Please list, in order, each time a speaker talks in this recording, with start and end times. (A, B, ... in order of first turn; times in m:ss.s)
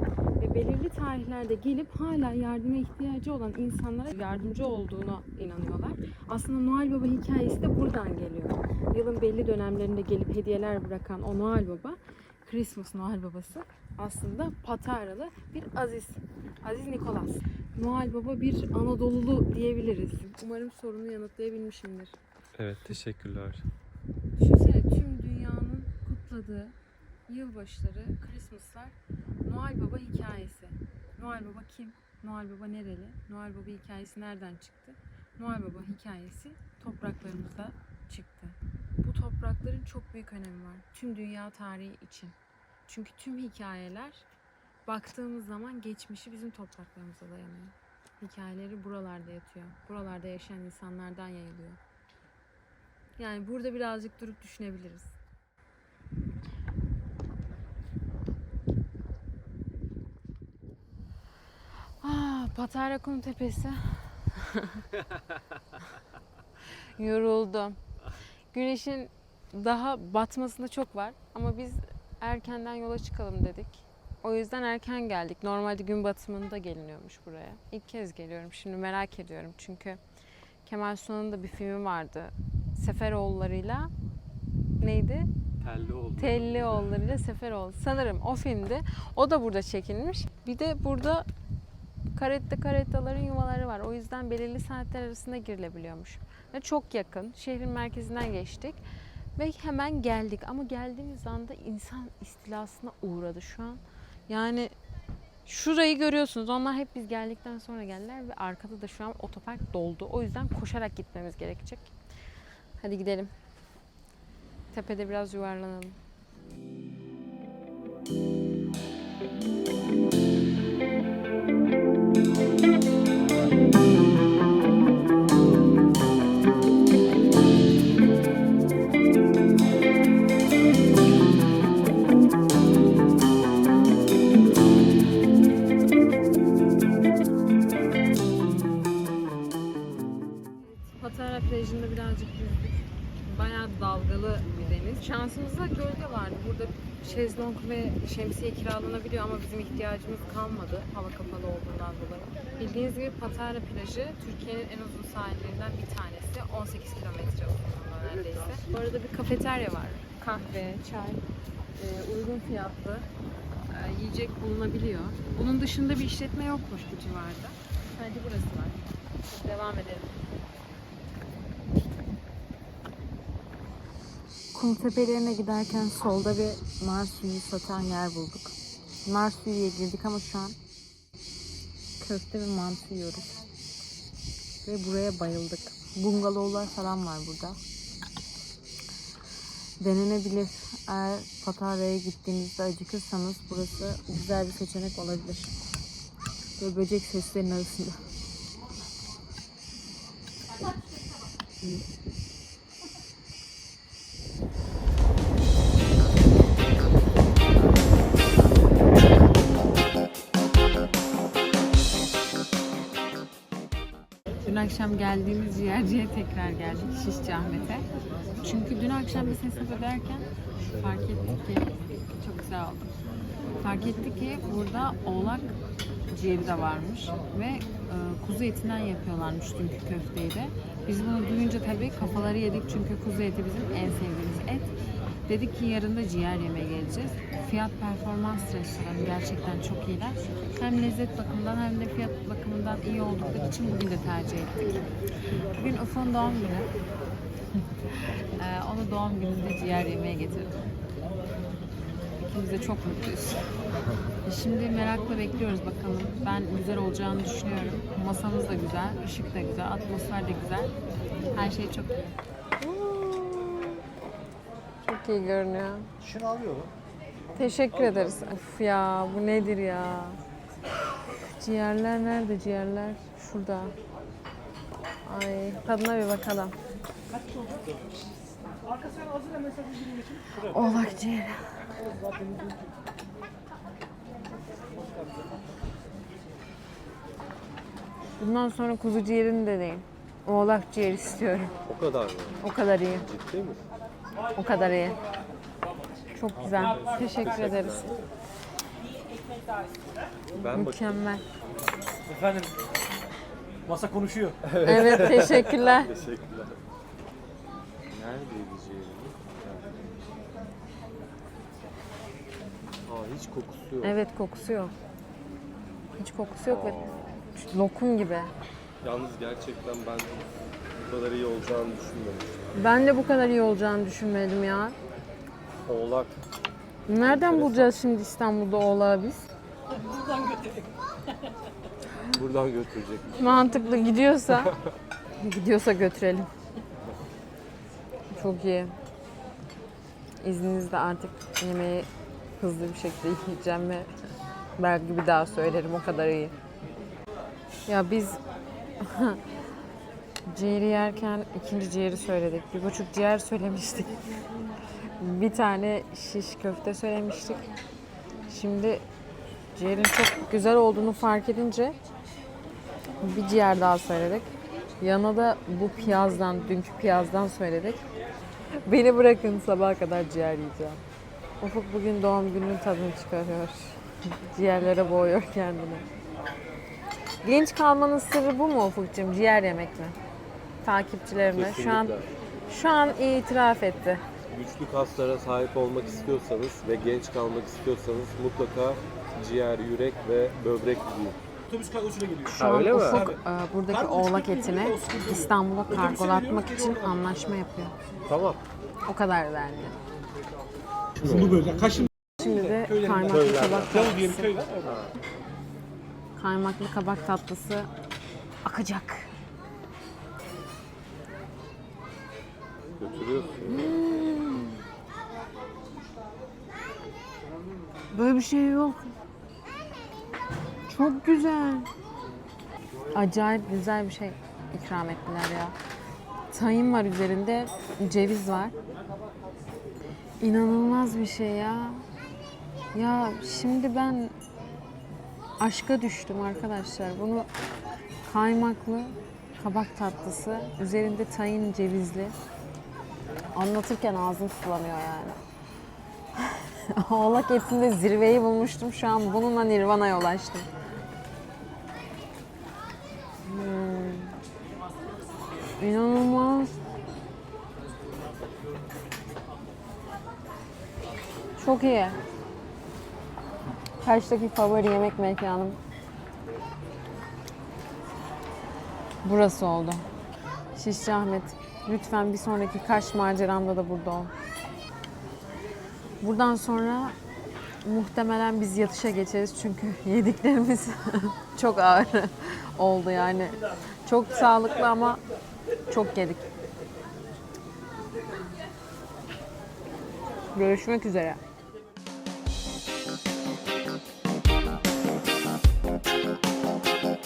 0:00.4-0:22.2 A
0:22.6-0:23.6 B
0:24.4-0:26.8 A
0:27.3-0:42.3 A
0:42.9-0:44.3 A
0:44.9-0:51.8 A
0:53.2-0:55.2 A
1:02.0-1:04.8 A
1:07.0-1:07.8 A
1:08.5-1:20.0 A
1:20.6-1:23.9 A
1:24.8-1:25.3 A
1:25.6-1:27.0 B
1:26.2-1:31.3 A
1:32.1-1:38.8 A
1:39.4-1:44.7 A
1:45.4-1:51.9 A
1:52.8-1:53.3 A
1:54.7-1:56.0 A
2:20.7-2:41.2 A
2:41.8-2:43.1 A
2:43.7-2:50.2 A
2:54.5-2:58.5 A
2:59.0-3:00.6 A
3:02.0-3:03.3 A
3:04.6-3:07.6 A
3:09.8-3:15.5 A
3:16.6-3:18.0 A
3:34.4-3:37.8 A
3:38.4-3:42.9 A
3:43.6-3:45.6 A
3:46.1-4:04.9 A
4:05.5-4:06.7 A
4:08.4-4:10.6 A
4:12.3-4:13.5 A
4:14.2-4:20.7 A
4:21.3-4:23.8 A
4:24.8-4:25.9 A
4:26.1-4:26.7 C
4:27.3-4:30.2 A
4:31.4-4:33.7 A
4:35.0-4:36.5 A
4:38.8-4:39.9 C
4:40.4-4:41.7 A
4:48.2-4:51.6 A
4:51.7-4:52.4 B
4:52.4-4:53.0 A
4:52.9-4:53.7 B
4:54.4-4:55.0 A
4:56.1-4:58.0 A
4:56.8-4:58.0 B
5:00.4-5:00.9 B
5:00.4-5:01.2 A
5:02.1-5:02.5 C
5:03.7-5:04.4 C
5:04.4-5:06.6 B
5:04.6-5:05.9 A
5:07.9-5:09.8 B
5:12.8-5:14.0 B
5:13.8-5:14.7 A
5:16.0-5:18.3 A
5:16.5-5:17.2 B
5:18.8-5:22.5 B
5:22.5-5:24.8 A
5:25.6-5:26.2 B
5:26.9-5:29.2 A
5:26.9-5:27.8 B
5:32.0-5:33.4 B
5:33.2-5:34.5 A
5:34.4-5:34.7 B
5:35.2-5:36.3 A
5:38.1-5:38.7 A
5:40.2-5:41.9 A
5:42.4-5:43.9 A
5:44.6-5:46.4 A
5:47.7-5:48.2 A
5:48.8-5:49.2 A
5:50.3-5:54.0 A
5:55.0-5:57.5 A
5:58.3-5:58.8 A
5:59.5-6:01.8 A
6:03.0-6:07.8 A
6:08.6-6:10.8 A
6:11.4-6:15.9 A
6:17.2-6:20.0 A
6:20.6-6:21.9 A
6:21.3-6:22.1 B
6:22.5-6:24.0 A
6:24.3-6:31.2 B
6:31.5-6:33.1 C
6:32.3-6:37.7 A
6:32.3-6:33.1 B
6:33.7-6:36.9 C
6:38.1-6:38.4 B
6:38.9-6:39.8 A
6:41.0-6:41.5 B
6:41.0-6:44.7 C
6:42.2-6:44.3 A
6:43.1-6:43.9 B
6:44.6-6:44.9 B
6:46.2-6:47.7 A
6:48.4-6:49.1 A
6:52.8-6:53.8 B
6:53.4-6:54.6 A
6:57.9-6:58.9 A
7:00.7-7:01.7 A
7:02.9-7:05.5 A
7:06.3-7:08.6 A
7:10.2-7:11.8 A
7:12.7-7:14.1 A
7:15.4-7:17.3 A
7:18.0-7:22.1 A
7:23.3-7:25.2 A
7:26.2-7:30.5 A
7:33.2-7:34.2 A
7:35.6-7:36.6 A
7:41.4-7:42.0 A
7:43.8-7:45.6 A
7:49.0-7:49.9 A
7:50.5-7:54.1 A
7:56.0-7:57.0 A
7:57.6-8:05.0 A
8:05.7-8:06.3 A
8:10.3-8:11.2 A